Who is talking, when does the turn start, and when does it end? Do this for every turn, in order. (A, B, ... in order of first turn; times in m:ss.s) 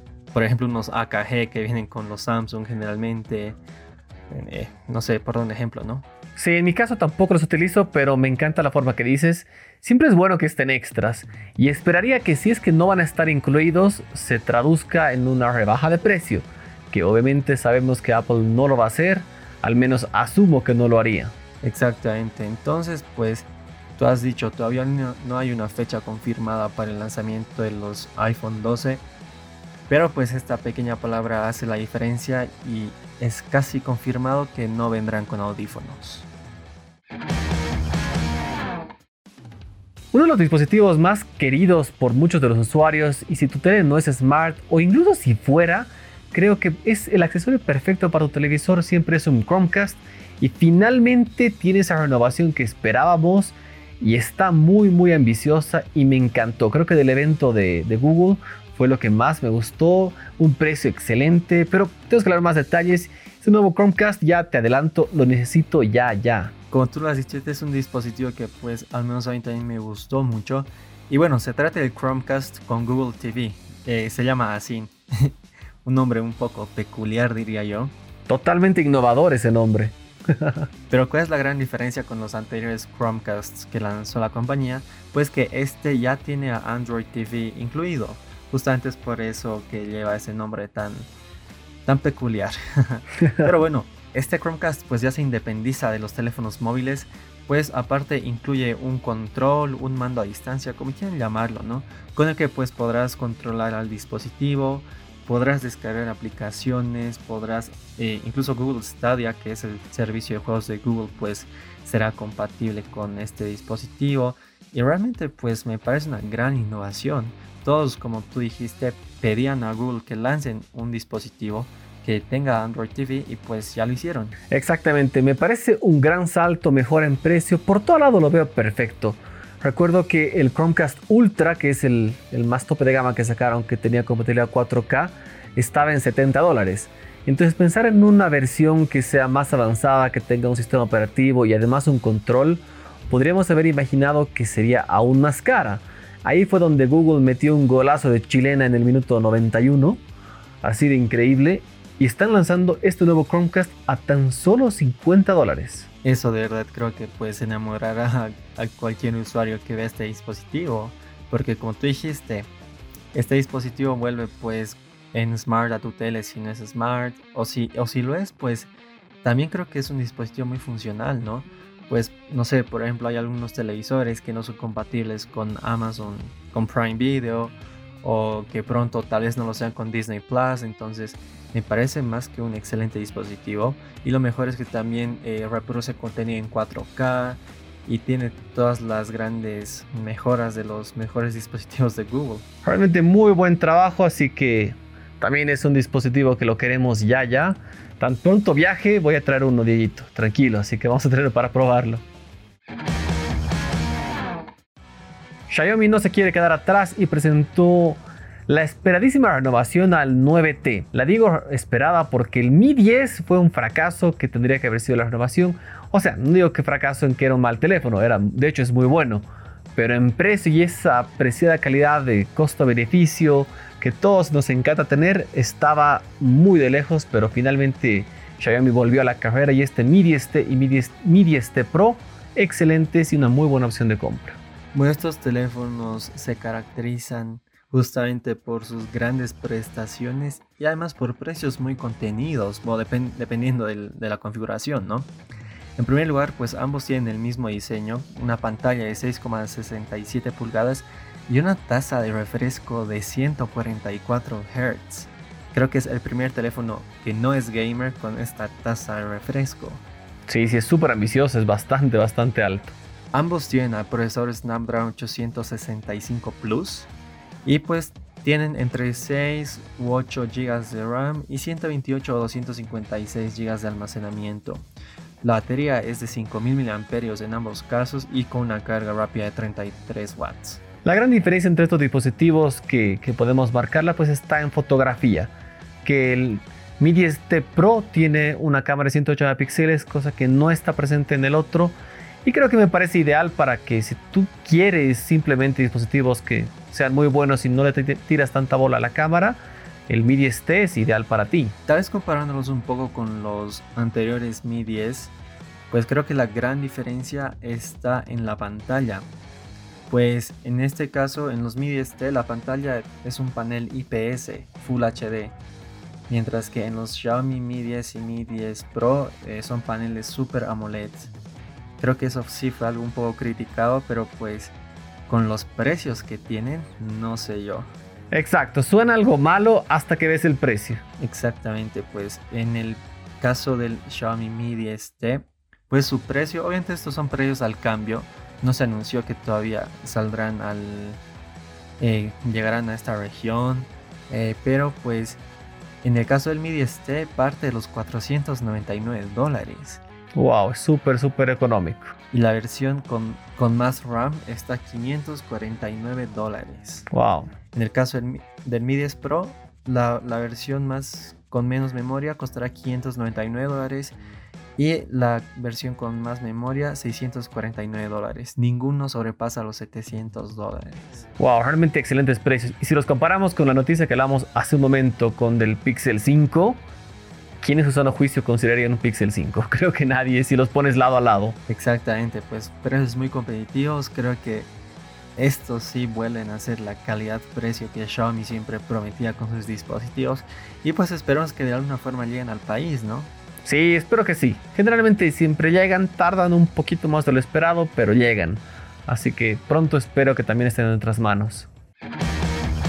0:00.3-0:03.6 A
0:04.3-0:06.0 A
0:06.4-0:21.3 B
0:21.6-0:23.5 A
0:24.0-0:29.0 A
0:29.9-0:36.3 A
0:40.1-1:06.5 B
1:06.7-1:17.9 A
1:18.3-1:20.7 B
1:20.9-1:31.1 A
1:31.8-2:04.3 A
2:04.5-2:30.0 B
2:30.6-2:35.9 B
2:36.0-2:42.5 A
2:43.1-2:48.7 A
2:49.2-3:12.4 A
3:12.6-3:22.0 B
3:25.5-3:54.4 B
3:54.7-4:05.1 A
4:05.8-4:19.8 A
4:20.3-4:22.7 B
4:23.1-4:26.9 A
4:27.4-4:34.7 A
4:35.2-4:40.6 A
4:40.8-4:45.3 B
4:45.8-5:01.5 B
5:01.6-5:05.1 A
5:05.7-5:09.1 A
5:09.9-5:15.4 A
5:16.1-5:21.1 A
5:21.8-5:24.5 A
5:25.1-5:27.7 A
5:28.1-5:30.8 B
5:31.0-5:41.0 A
5:41.8-5:45.2 A
5:45.8-5:49.8 A
5:50.1-5:51.9 B
5:52.1-5:56.9 A
5:56.9-5:57.3 B
5:57.5-6:04.0 A
6:04.6-6:11.1 A
6:11.2-6:16.6 B
6:17.4-6:21.4 B
6:21.5-6:24.5 A
6:25.2-6:33.1 A
6:33.4-6:41.5 B